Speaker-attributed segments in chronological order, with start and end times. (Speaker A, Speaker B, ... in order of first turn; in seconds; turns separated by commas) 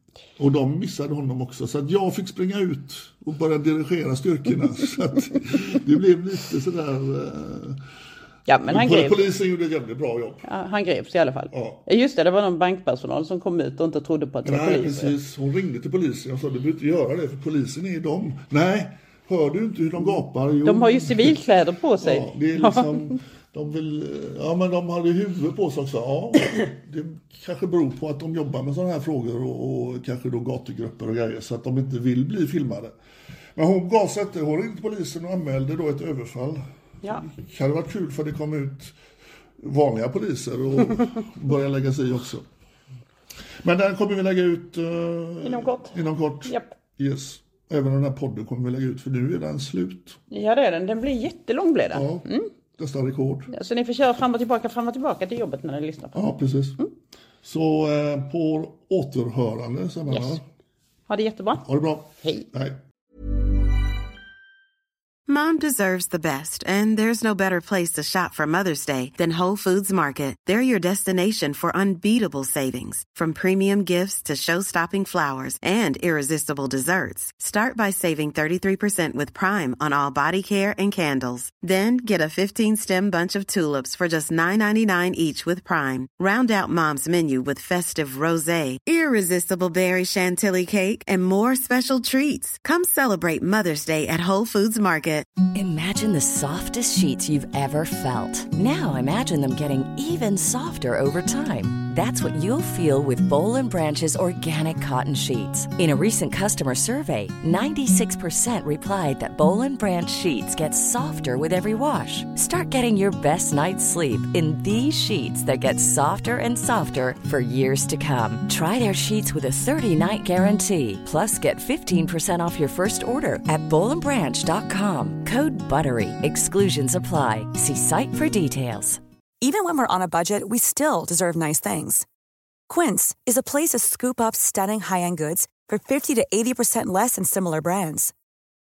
Speaker A: 0.4-7.8, Speaker B: 8.5-9.3, Speaker A: 8.7-10.4, Speaker B: 10.4-15.1, Speaker A: 11.5-11.8, Speaker A: 14.4-21.4, Speaker B: 20.6-23.2, Speaker A: 22.0-32.9, Speaker A: 33.5-38.9, Speaker A: 39.6-42.4, Speaker A: 43.6-50.2, Speaker B: 45.4-46.7, Speaker B: 50.3-52.5, Speaker A: 51.9-53.5, Speaker B: 53.5-56.2, Speaker A: 56.1-56.8, Speaker A: 57.4-60.4, Speaker B: 61.1-61.6, Speaker A: 61.6-62.8, Speaker B: 62.2-62.5, Speaker C: 65.3-95.3, Speaker D: 95.5-129.0, Speaker E: 129.4-132.1, Speaker E: 132.7-138.1